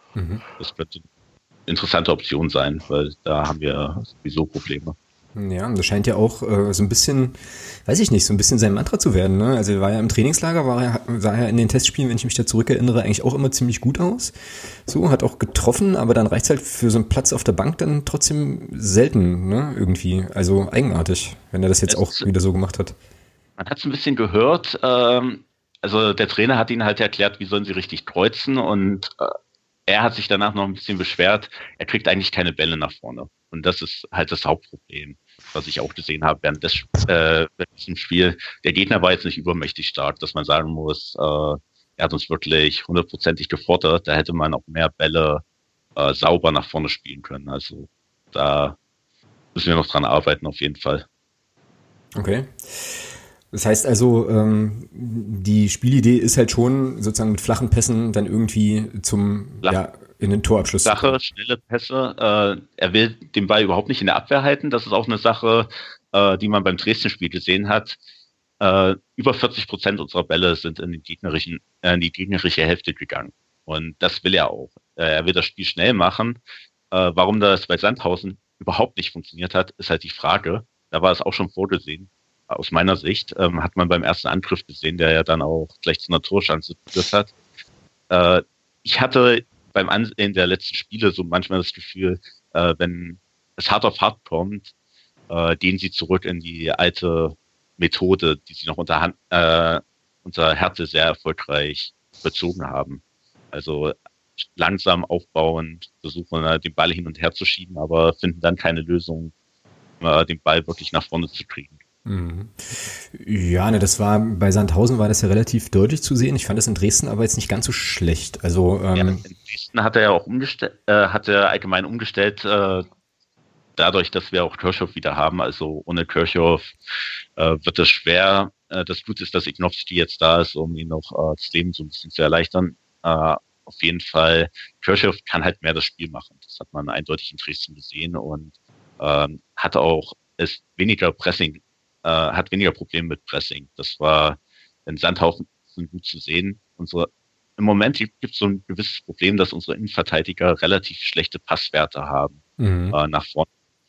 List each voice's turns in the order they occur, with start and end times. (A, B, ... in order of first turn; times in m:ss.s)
0:00.2-0:00.4 A
0:00.6-0:01.0 B
0:01.7-0:05.0 B
0:05.4-0:14.4 A
0:14.9-0:23.0 A
0:21.9-0:22.3 B
0:23.6-0:29.4 B
0:29.9-0:45.4 B
0:46.0-0:48.8 B
0:49.6-0:51.1 B
0:52.2-1:01.1 A
1:00.8-1:08.0 B
1:08.6-1:16.4 B
1:16.9-1:27.3 B
1:28.1-1:34.7 B
1:35.3-1:44.0 B
1:44.5-1:49.3 B
1:50.0-1:51.8 B
1:52.1-1:59.2 A
1:59.0-2:02.9 B
2:03.8-2:06.7 B
2:07.4-2:32.4 B
2:32.6-2:33.0 A
2:32.9-2:33.5 B